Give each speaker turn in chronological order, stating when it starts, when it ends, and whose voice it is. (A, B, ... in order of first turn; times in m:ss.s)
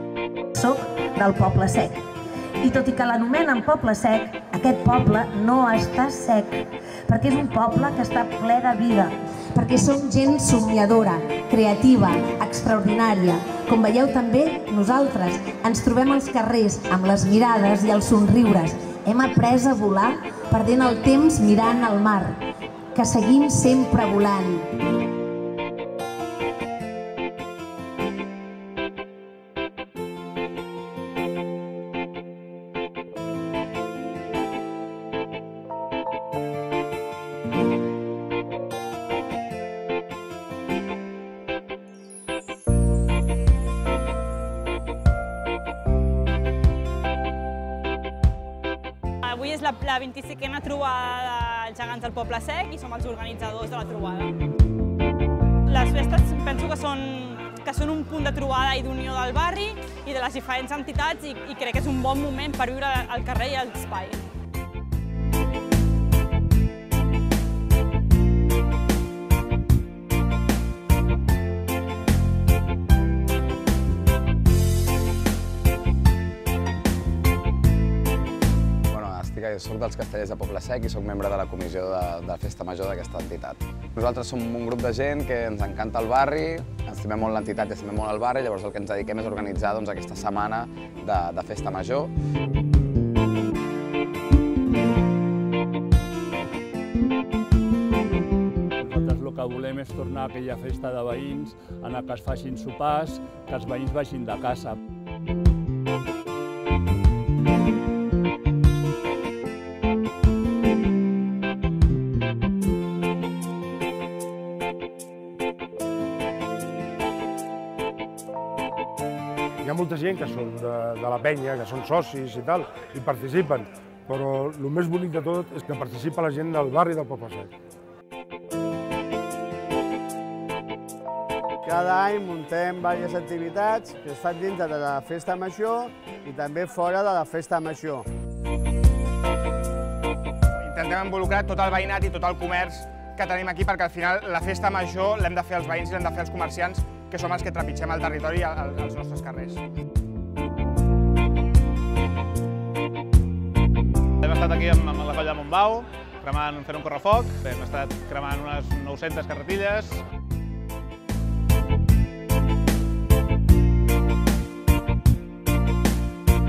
0:00.5-0:02.0 A
0:02.6-0:22.3 A
0:22.9-0:24.6 A
0:49.2-0:54.4 B
0:55.7-1:04.2 B
1:18.9-1:32.1 C
1:38.8-1:44.8 D
1:59.6-2:07.5 E
2:11.6-2:18.1 F
2:20.6-2:29.6 G
2:34.2-2:40.0 H